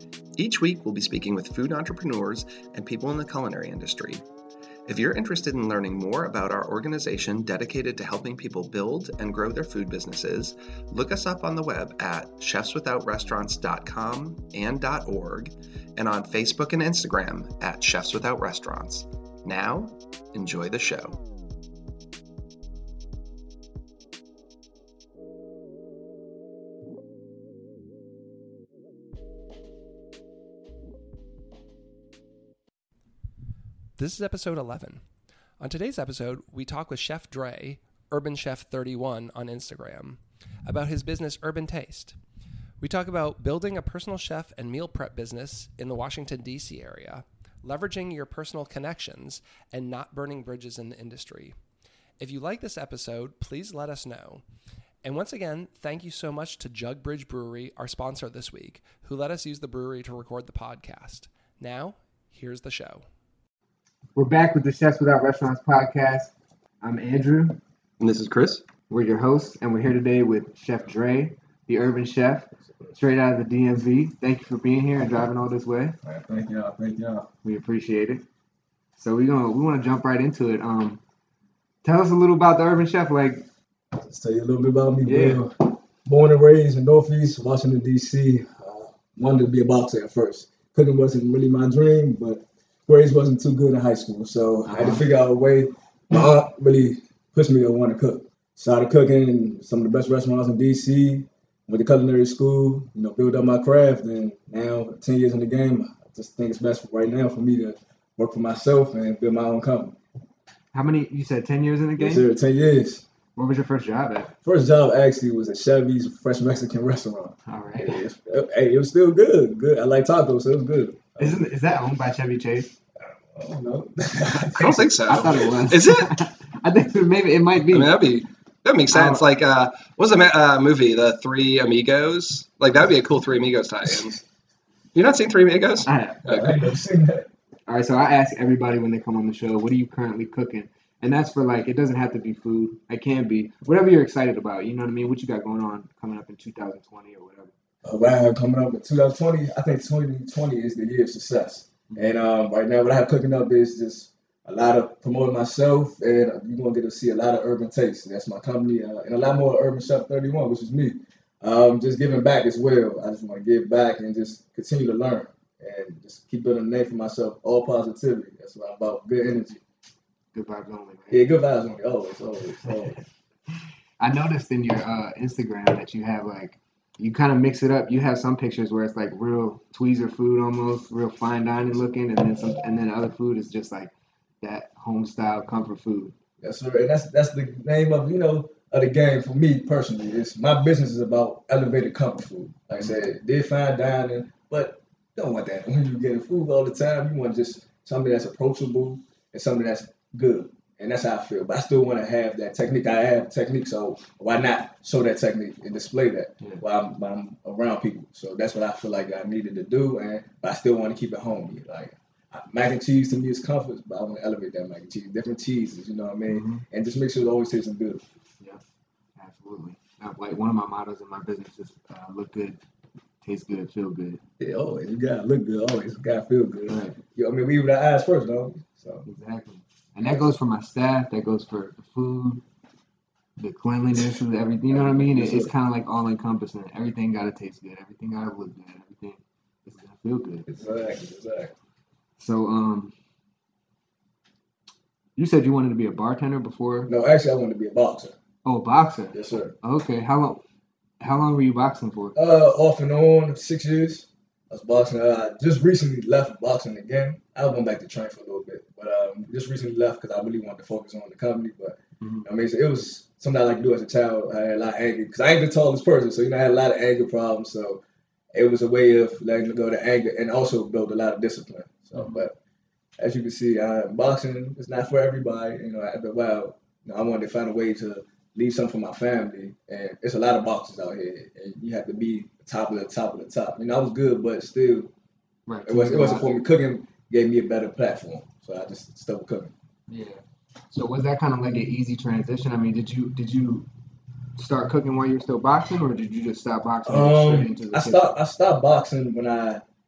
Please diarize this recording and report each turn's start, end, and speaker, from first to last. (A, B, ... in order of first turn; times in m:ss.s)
0:00.4-0:04.2 A
0:04.9-0:21.2 A
0:34.0-0:35.0 A
0:35.6-0:42.2 A
0:42.8-0:51.6 A
0:52.2-0:54.4 A
0:55.0-1:03.1 A
1:04.2-1:07.6 B
1:08.0-1:08.6 A
1:08.9-1:16.0 B
1:16.0-1:17.3 C
1:17.4-1:18.2 B
1:19.0-1:21.0 B
1:21.8-1:23.4 B
1:24.0-1:50.0 C
1:25.0-1:25.4 B
1:34.7-1:35.0 B
1:50.7-1:52.3 B
1:52.0-1:53.0 C
1:53.4-1:54.3 B
1:54.4-2:01.5 C
1:57.5-1:58.0 B
2:01.2-2:02.7 B
2:03.0-2:05.5 C
2:04.5-2:06.2 A
2:04.6-2:08.0 B
2:07.7-2:14.2 A
2:08.9-2:09.2 B
2:14.9-2:16.6 A
2:15.9-2:16.5 B
2:16.3-2:17.3 C
2:17.7-2:27.5 B
2:27.8-2:49.6 C
2:50.3-2:51.2 B
2:51.1-2:53.0 C
2:54.0-3:06.1 B
3:06.4-3:38.1 C
3:36.3-3:36.6 B
3:39.2-3:42.6 B
3:43.2-3:44.2 B
3:44.4-3:49.1 C
3:46.7-3:47.0 B
3:49.0-3:52.4 B
3:53.4-4:00.5 B
3:54.7-3:55.5 C
4:00.5-4:01.5 C
4:02.2-4:02.9 B
4:05.2-4:06.9 B
4:06.9-4:08.2 C
4:08.4-4:10.4 B
4:09.1-4:09.6 C
4:11.0-4:12.2 B
4:12.2-4:27.8 C
4:22.0-4:22.3 B
4:28.3-4:32.4 C
4:33.0-4:44.9 C
4:45.5-4:46.3 B
4:45.7-4:49.5 C
4:49.9-4:50.2 B
4:50.7-4:53.7 B
4:54.4-4:58.1 B
4:56.9-4:59.6 C